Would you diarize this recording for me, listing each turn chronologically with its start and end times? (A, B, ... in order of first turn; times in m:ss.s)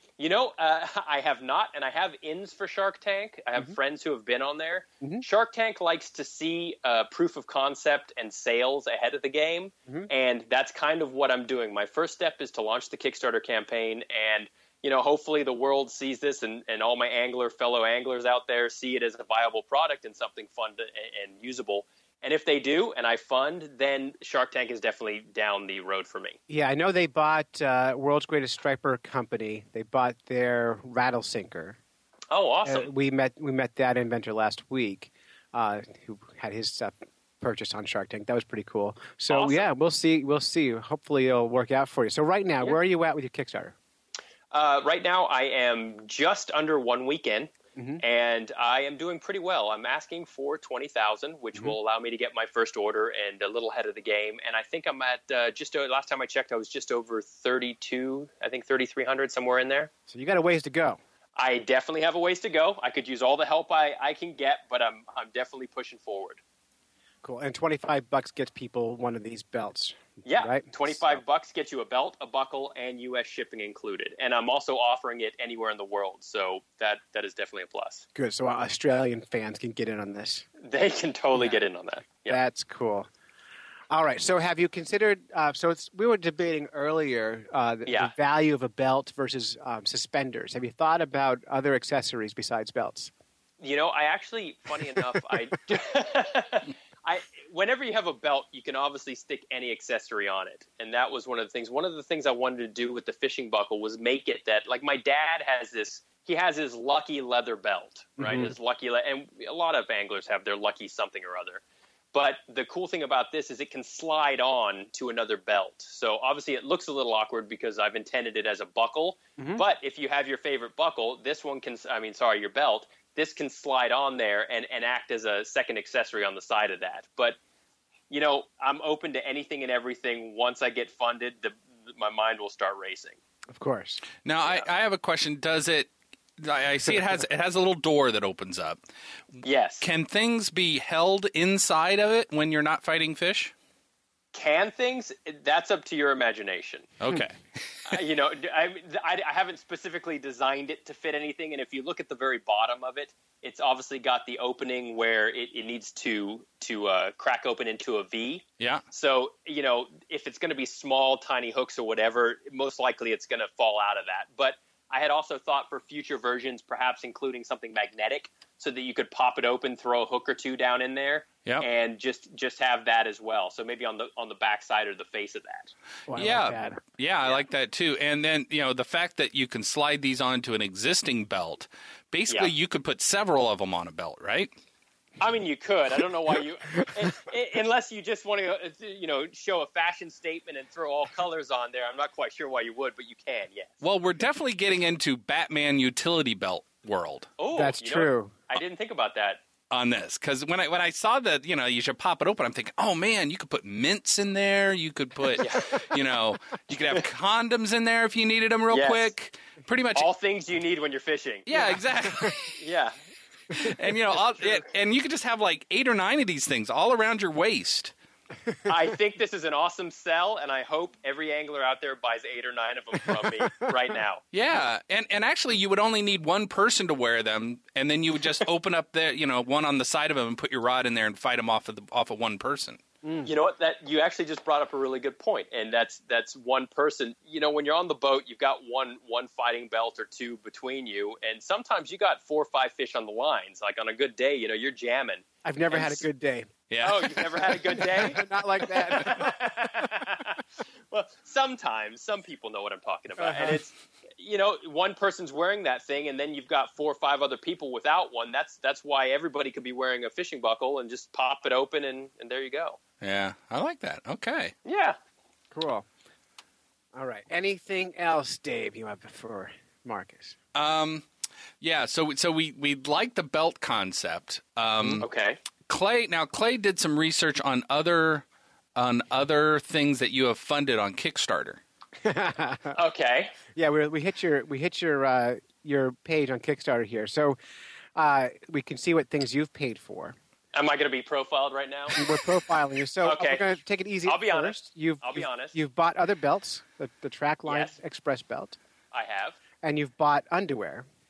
0:00.2-0:26.4 A
0:26.5-0:31.8 B
0:32.3-0:32.9 A
0:32.6-0:43.8 B
0:39.3-0:39.7 A
0:44.5-0:59.9 A
0:47.8-0:48.0 B
1:00.1-1:01.0 B
1:01.4-1:06.4 A
1:07.2-1:11.2 B
1:10.2-1:18.0 A
1:18.2-1:20.5 B
1:20.6-1:22.4 A
1:22.3-1:23.1 B
1:23.9-1:33.1 B
1:27.9-1:28.1 A
1:33.6-1:51.6 A
1:48.2-1:48.5 B
1:52.1-2:07.4 A
1:59.4-1:59.6 B
2:08.1-2:13.2 A
2:13.5-2:14.0 B
2:14.2-2:18.8 C
2:19.4-2:19.8 A
2:19.8-2:23.5 C
2:24.3-2:26.9 A
2:27.0-2:27.4 C
2:27.9-2:55.7 A
2:56.1-2:56.8 B
2:56.1-3:04.6 C
3:05.2-3:13.7 A
3:13.8-3:17.3 C
3:17.4-3:19.4 A
3:17.6-3:18.4 B
3:19.7-3:30.1 C
3:25.4-3:25.9 A
3:28.7-3:29.1 A
3:30.0-3:31.7 A
3:31.5-3:32.6 C
3:31.6-3:32.3 B
3:32.6-3:33.0 A
3:33.5-3:37.9 C
3:38.7-3:44.2 A
3:44.3-3:52.8 C
3:53.0-3:53.3 B
3:53.2-4:06.0 A
4:05.4-4:06.5 B
4:06.7-4:07.8 C
4:06.8-4:08.2 A
4:07.6-4:09.5 B
4:08.9-4:10.4 A
4:10.9-4:22.8 A
4:13.2-4:13.6 B
4:23.0-4:24.5 C
4:24.6-4:25.0 A
4:25.5-4:25.9 B
4:26.9-4:30.4 B
4:30.6-4:31.0 C
4:31.6-4:35.1 C
4:35.0-4:35.4 A
4:35.7-4:38.2 C
4:38.8-4:41.6 C
4:42.0-4:42.8 B
4:42.7-4:43.3 A
4:43.6-4:47.4 B
4:48.0-4:50.2 B
4:50.5-4:52.0 A
4:51.9-4:58.6 B
4:53.0-4:53.4 A
4:54.0-4:55.6 A
4:57.5-4:57.8 A
4:58.9-4:59.4 A
4:59.6-5:00.9 B